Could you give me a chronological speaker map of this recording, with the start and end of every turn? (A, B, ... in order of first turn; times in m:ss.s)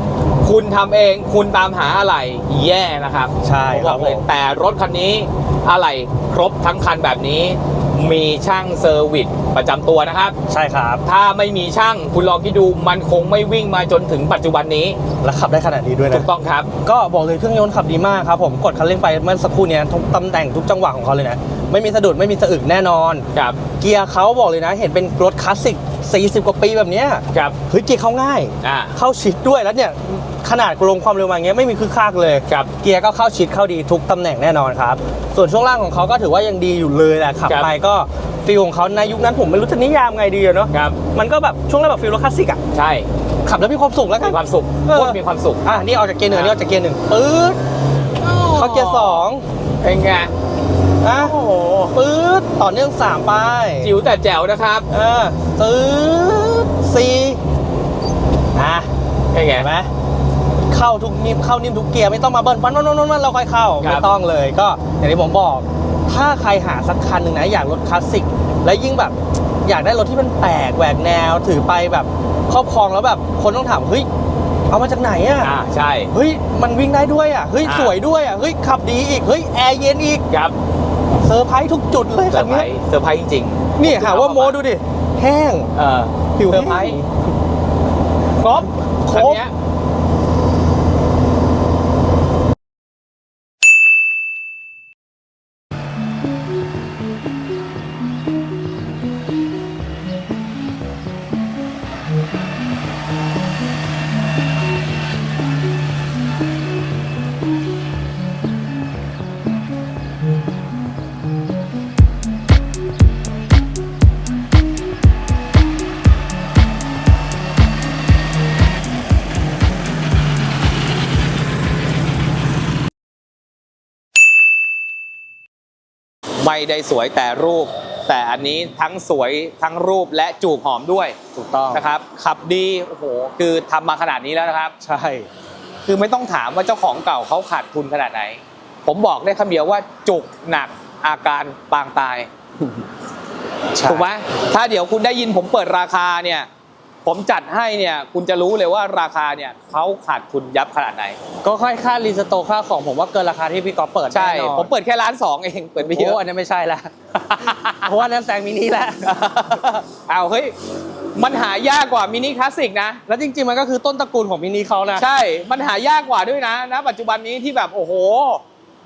0:00.4-0:10.4 A
0:03.4-0:04.2 B
0:10.5-0:11.0 B
0:11.0-0:15.0 A
0:15.2-0:16.3 B
0:16.1-0:16.7 A
0:16.8-0:42.6 B
0:23.3-0:23.6 A
0:28.6-0:28.9 A
0:40.7-0:41.0 A
0:42.7-0:43.1 A
0:43.4-0:47.6 B
0:44.2-0:45.6 A
0:48.2-0:49.2 A
0:48.5-0:49.4 B
0:49.8-0:50.3 A
0:51.0-0:51.3 B
0:51.1-0:51.9 A
0:51.9-0:53.9 B
0:53.8-0:54.9 A
0:54.9-0:57.4 B
0:58.5-0:58.9 B
0:59.3-0:59.7 A
0:59.5-0:59.9 B
1:00.7-1:14.1 B
1:03.8-1:04.0 A
1:14.7-1:15.5 B
1:15.4-1:16.1 A
1:16.1-1:20.2 B
1:17.6-1:18.0 A
1:20.3-1:20.6 A
1:21.2-1:22.7 B
1:22.3-1:24.6 A
1:23.8-1:25.7 B
1:25.8-1:27.0 A
1:26.4-1:27.2 B
1:28.4-1:29.5 A
1:29.0-1:29.4 B
2:06.4-2:11.2 A
2:11.3-2:11.8 B
2:11.7-2:14.7 A
2:14.8-2:15.3 B
2:15.8-2:22.3 A
2:23.7-2:24.1 B
2:23.8-2:26.5 A
2:27.0-2:31.2 A
2:31.4-2:34.7 B
2:34.1-2:36.2 A
2:35.8-2:39.1 B
2:37.3-2:37.9 A
2:39.0-2:40.5 A
2:41.2-2:43.0 A
2:43.1-2:45.0 B
2:45.0-2:48.4 A